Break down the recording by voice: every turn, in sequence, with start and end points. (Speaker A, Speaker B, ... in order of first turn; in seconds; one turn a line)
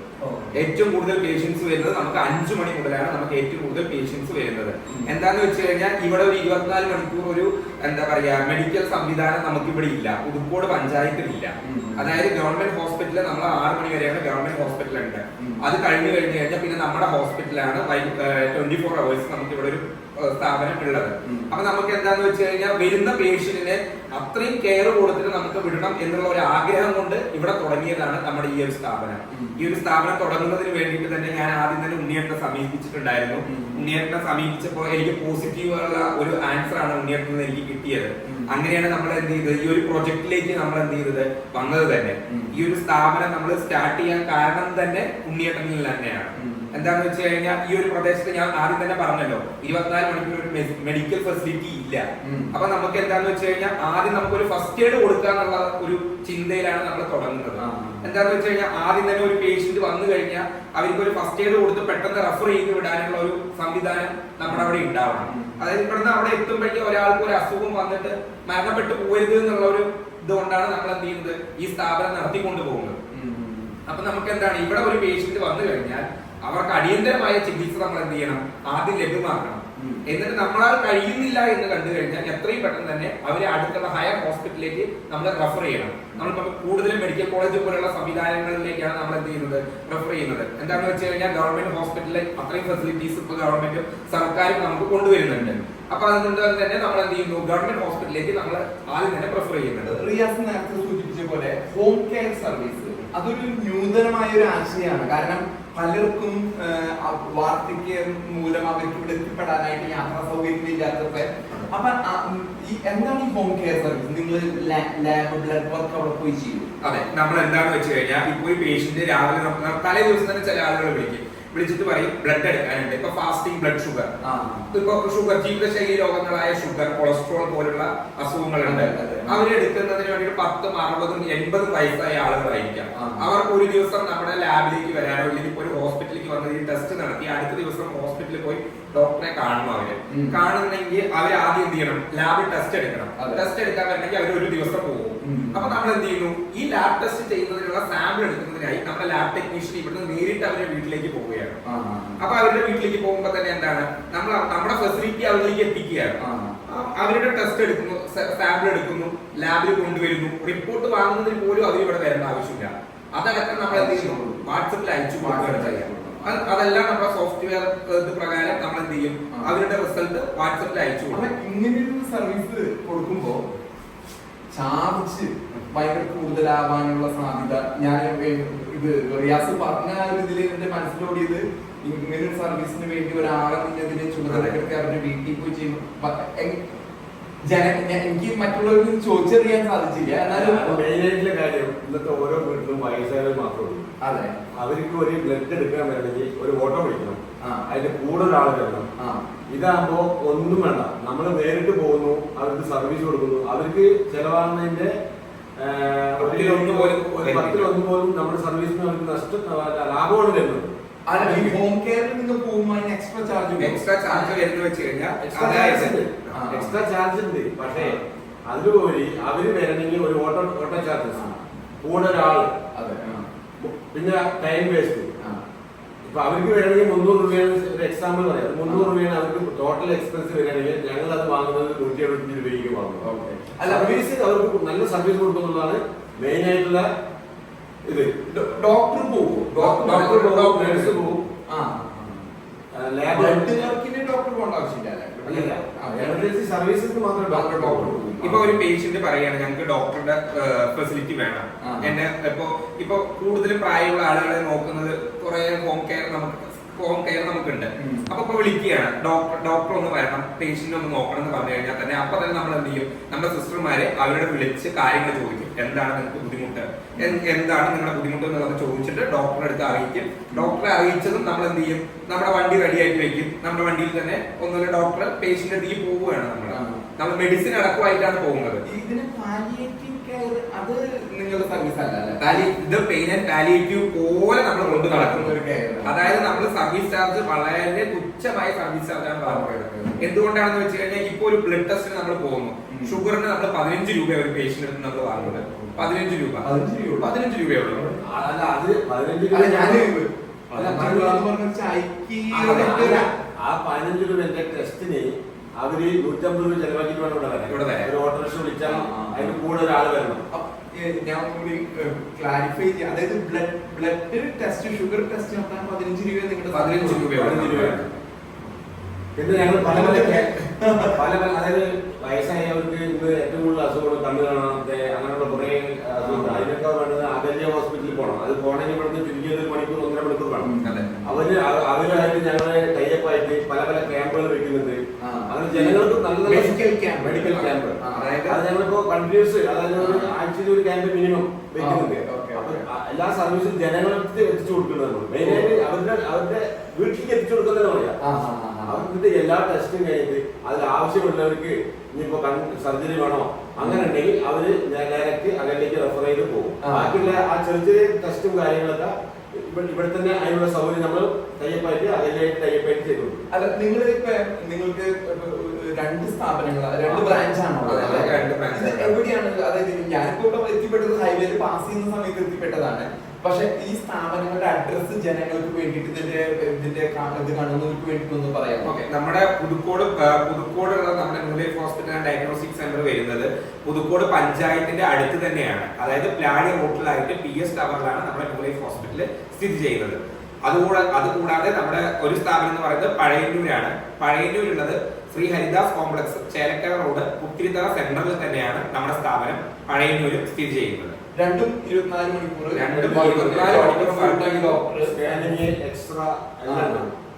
Speaker A: 0.2-0.6
Speaker B: 0.5-73.0
Speaker A: 11.6-12.2
Speaker A: 15.4-15.6
Speaker A: 21.3-21.5
Speaker A: 29.3-29.7
Speaker A: 33.5-33.9
Speaker A: 38.3-38.6
Speaker A: 42.3-42.5
Speaker A: 46.4-46.9
Speaker A: 52.2-52.5
Speaker A: 57.6-58.1
Speaker A: 64.5-65.6
Speaker A: 73.1-73.7
Speaker B: 73.9-100.0
Speaker A: 79.8-80.0
Speaker A: 95.3-95.6
Speaker A: 99.8-116.7
Speaker B: 116.8-124.1
Speaker A: 124.2-124.8
Speaker B: 124.7-151.6
Speaker A: 128.6-129.4
Speaker A: 132.9-133.3
Speaker A: 140.1-140.4
Speaker A: 143.2-143.4
Speaker A: 145.2-145.8
Speaker A: 151.7-152.2
Speaker B: 152.2-171.3
Speaker A: 156.2-156.5
Speaker A: 163.7-164.4
Speaker A: 165.2-166.4
Speaker A: 171.1-173.4
Speaker A: 174.5-186.7
Speaker A: 187.5-190.8
Speaker C: 190.3-193.9
Speaker A: 194.0-194.4
Speaker C: 194.6-198.9
Speaker C: 199.5-204.9
Speaker C: 205.6-211.5
Speaker B: 206.2-207.7
Speaker A: 211.1-214.3
Speaker B: 213.6-216.3
Speaker C: 215.3-217.9
Speaker A: 216.3-216.8
Speaker C: 218.5-221.2
Speaker A: 221.2-221.4
Speaker C: 221.8-222.5
Speaker A: 222.8-223.2
Speaker C: 223.6-225.1
Speaker C: 226.1-233.1
Speaker A: 233.0-234.0
Speaker C: 233.6-236.9
Speaker C: 237.9-238.1
Speaker A: 238.3-240.9
Speaker B: 239.6-241.0
Speaker C: 239.8-241.3
Speaker A: 241.5-242.3
Speaker C: 242.7-243.7
Speaker A: 243.1-246.3
Speaker C: 245.2-248.0
Speaker A: 247.3-248.6
Speaker B: 248.2-278.6
Speaker A: 251.6-251.9
Speaker A: 257.8-258.1
Speaker A: 270.3-270.6
Speaker A: 276.5-276.8
Speaker A: 278.7-282.2
Speaker B: 282.2-296.5
Speaker A: 284.6-286.5
Speaker A: 289.3-290.0
Speaker A: 292.7-293.0
Speaker A: 295.1-295.9
Speaker A: 296.4-297.1
Speaker B: 297.0-297.9
Speaker A: 297.7-298.0
Speaker C: 298.0-299.9
Speaker A: 299.3-303.1
Speaker C: 300.5-301.2
Speaker C: 302.3-310.2
Speaker B: 302.4-302.8
Speaker B: 307.5-307.9
Speaker A: 308.6-309.4
Speaker A: 310.3-317.1
Speaker B: 316.5-317.9
Speaker C: 316.9-317.8
Speaker C: 319.1-320.3
Speaker A: 319.4-321.0
Speaker C: 320.9-330.5
Speaker A: 326.0-326.4
Speaker A: 330.4-331.2
Speaker B: 330.6-330.9
Speaker C: 331.0-348.0
Speaker A: 335.0-338.4
Speaker A: 339.8-340.1
Speaker A: 341.6-342.6
Speaker A: 345.2-345.5
Speaker A: 348.0-348.8
Speaker C: 348.7-363.2
Speaker A: 353.6-353.9
Speaker A: 356.6-357.2
Speaker A: 363.3-378.8
Speaker C: 366.8-368.1
Speaker B: 367.6-369.0
Speaker B: 378.6-401.0
Speaker A: 401.1-405.3
Speaker B: 402.6-404.6
Speaker C: 404.8-406.9
Speaker A: 406.5-406.9